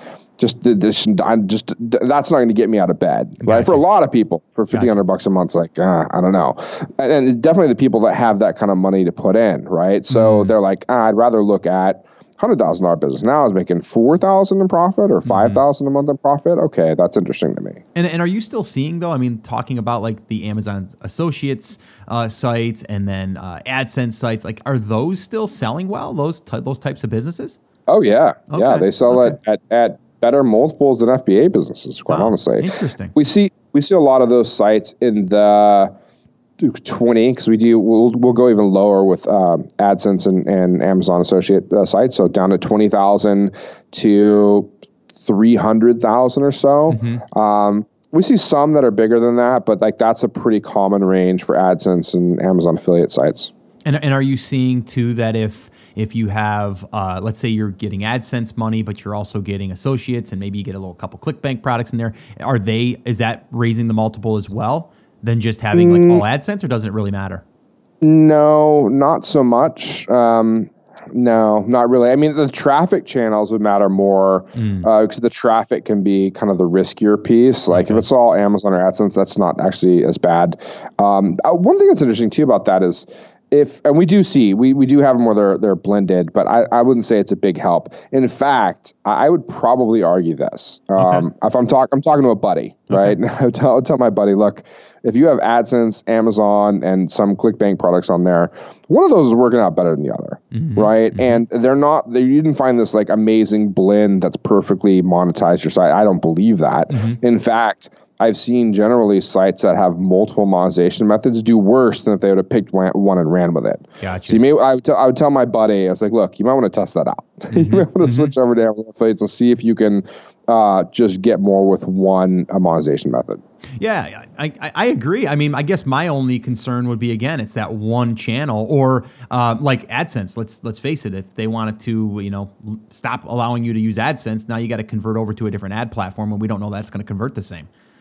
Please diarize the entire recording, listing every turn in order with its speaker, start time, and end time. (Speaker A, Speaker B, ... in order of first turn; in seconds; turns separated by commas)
Speaker A: 0.4-17.8, Speaker B: 3.4-3.8, Speaker B: 10.1-10.5, Speaker B: 15.2-15.6, Speaker B: 17.9-27.6, Speaker A: 27.9-35.9, Speaker B: 28.5-29.4, Speaker B: 32.1-33.1, Speaker A: 36.6-53.5, Speaker B: 46.9-47.2, Speaker B: 53.9-67.4, Speaker A: 65.7-66.2, Speaker A: 68.0-123.4, Speaker B: 74.5-74.9, Speaker B: 77.7-78.0, Speaker B: 91.0-91.2, Speaker B: 92.9-93.2, Speaker B: 100.5-101.4, Speaker B: 106.9-107.2, Speaker B: 114.0-114.4, Speaker B: 117.5-118.3, Speaker B: 123.8-137.7